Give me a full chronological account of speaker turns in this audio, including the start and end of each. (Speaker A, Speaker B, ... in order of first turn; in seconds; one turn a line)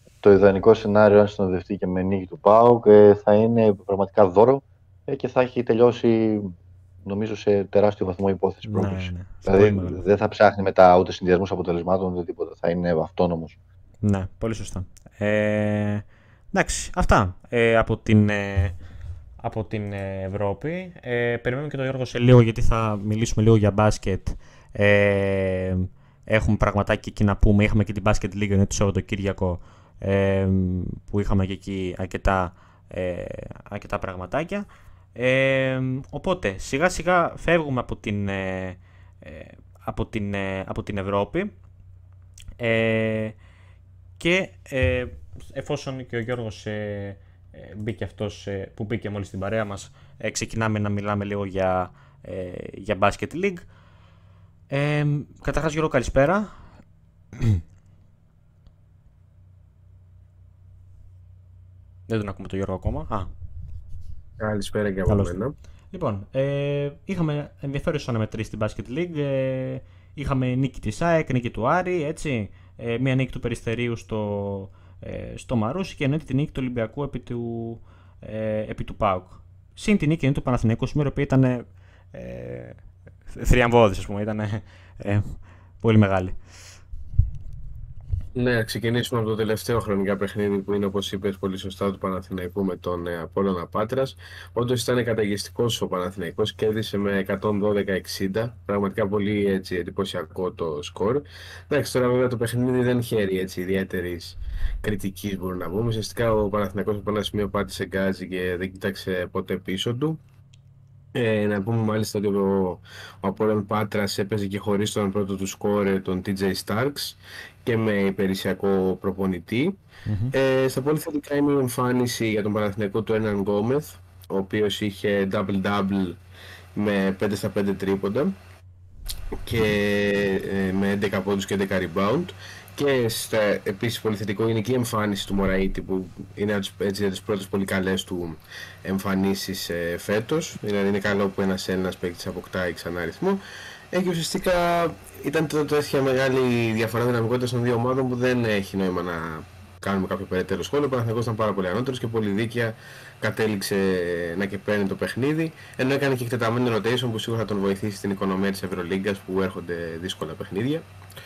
Speaker A: 0.2-13.6
Speaker B: 8.6-10.0
Speaker B: 14.0-18.7
Speaker B: 19.4-41.5
Speaker B: 42.6-43.4
Speaker B: 44.2-53.7
Speaker B: 54.7-56.5
Speaker B: 57.4-57.6
Speaker B: 62.1-63.3
Speaker C: 64.4-65.6
Speaker B: 65.1-65.3
Speaker B: 65.9-86.4
Speaker C: 88.3-110.2
Speaker C: 111.1-119.8
Speaker B: 120.1-120.3
Speaker C: 120.3-126.2
Speaker C: 126.7-128.4
Speaker C: 129.4-143.4
Speaker C: 143.9-160.9